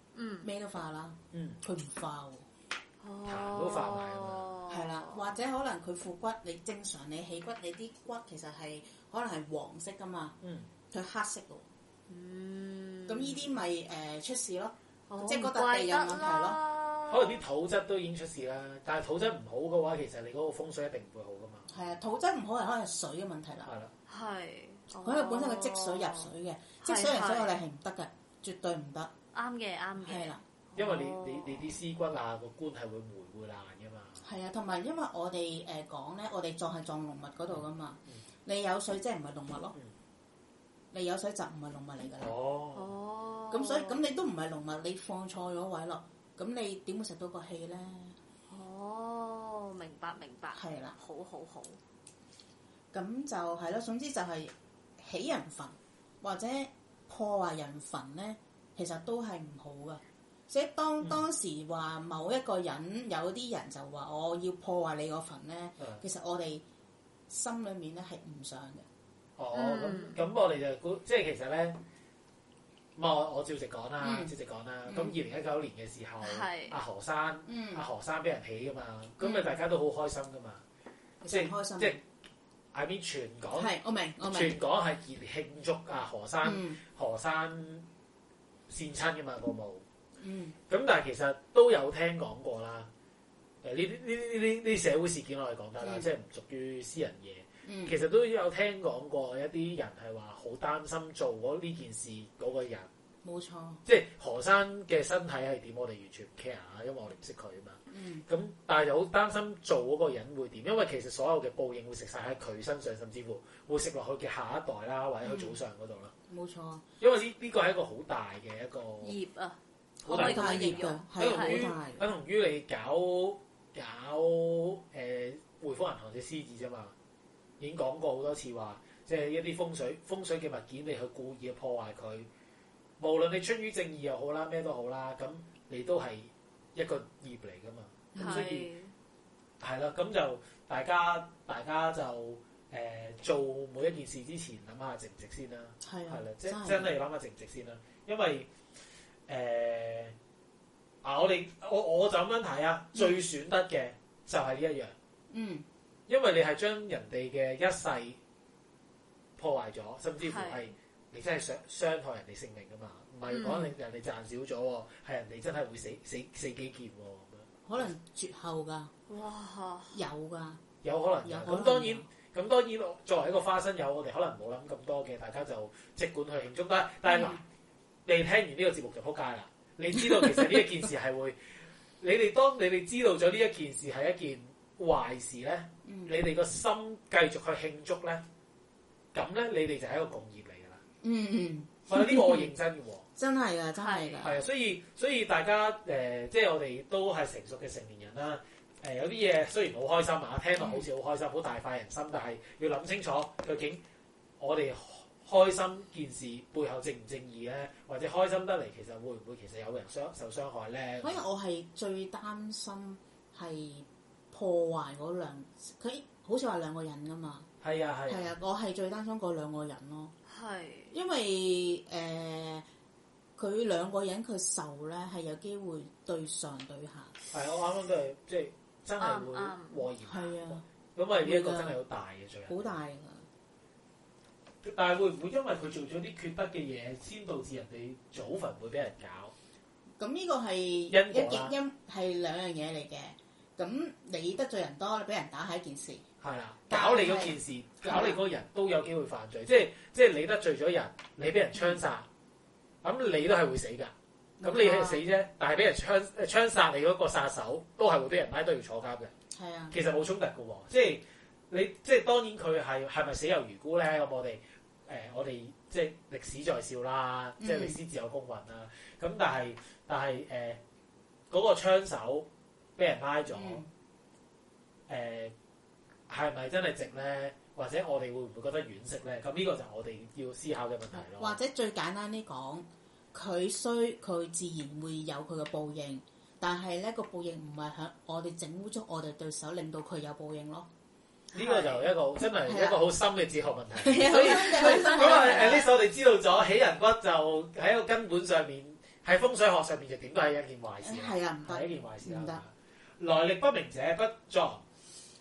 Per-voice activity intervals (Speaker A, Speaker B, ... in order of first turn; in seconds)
Speaker A: 0.1-0.5, 3.0-5.3, 12.1-13.5, 15.1-17.4, 24.1-26.3, 26.8-27.5, 29.3-31.7, 42.7-44.0, 48.5-51.8, 69.5-70.2, 76.2-76.8, 119.0-121.6, 138.2-138.9, 160.2-160.7, 163.3-163.7, 169.1-170.0, 193.7-194.2, 220.3-220.9, 229.0-229.8, 294.5-295.5
Speaker B: 0.4-2.5, 4.7-10.3, 10.9-11.7, 13.1-16.6, 21.7-23.7, 25.0-29.1, 30.0-30.4, 34.2-39.7, 40.9-42.3, 43.5-48.1, 50.5-51.0, 52.9-66.6, 67.3-68.8, 74.0-74.3, 74.9-75.2, 77.5-77.8, 79.2-79.6, 81.2-82.0, 83.5-84.6, 86.4-86.8, 90.2-90.6, 95.8-96.1, 97.6-97.9, 103.2-103.8, 107.9-108.2, 115.2-115.5, 116.3-116.8, 120.1-122.0, 138.1-138.5, 145.8-146.9, 155.3-155.7, 167.7-168.9, 169.9-170.6, 171.2-172.1, 177.1-177.4, 180.0-180.6, 185.8-186.1, 191.0-192.5, 193.2-194.4, 200.6-200.8, 211.0-217.5, 218.1-220.1, 220.9-222.7, 223.4-227.1, 230.1-230.6, 231.2-231.8, 232.5-233.2, 240.0-246.0, 246.7-248.2, 251.6-251.8, 254.4-255.0, 259.3-259.7, 267.4-267.8, 273.3-273.7, 280.9-290.7, 291.4-291.8, 292.4-292.8, 293.8-295.7, 300.8-302.4
Speaker C: 1.3-1.6, 3.2-4.5, 10.4-10.7, 17.1-21.7, 23.6-23.9, 30.8-34.2, 37.5-38.2, 42.2-42.9, 69.4-71.8, 73.0-80.6, 81.3-82.0, 82.7-83.8, 84.3-87.9, 88.7-89.8, 90.7-92.9, 93.6-102.9, 103.8-116.1, 117.0-119.2, 120.0-126.9, 127.6-132.3, 133.0-138.7, 139.6-148.5, 149.3-150.1, 151.0-154.9, 156.1-158.2, 159.4-167.9, 170.8-177.4, 178.1-181.4, 182.0-188.2, 189.1-190.8, 191.9-193.1, 194.2-203.8, 204.4-211.2, 217.6-218.3, 227.3-232.7, 234.6-239.3, 240.9-241.5, 246.2-252.1, 252.8-259.1, 259.7-270.6, 271.3-273.6, 274.9-275.3, 276.1-281.4, 291.3-304.6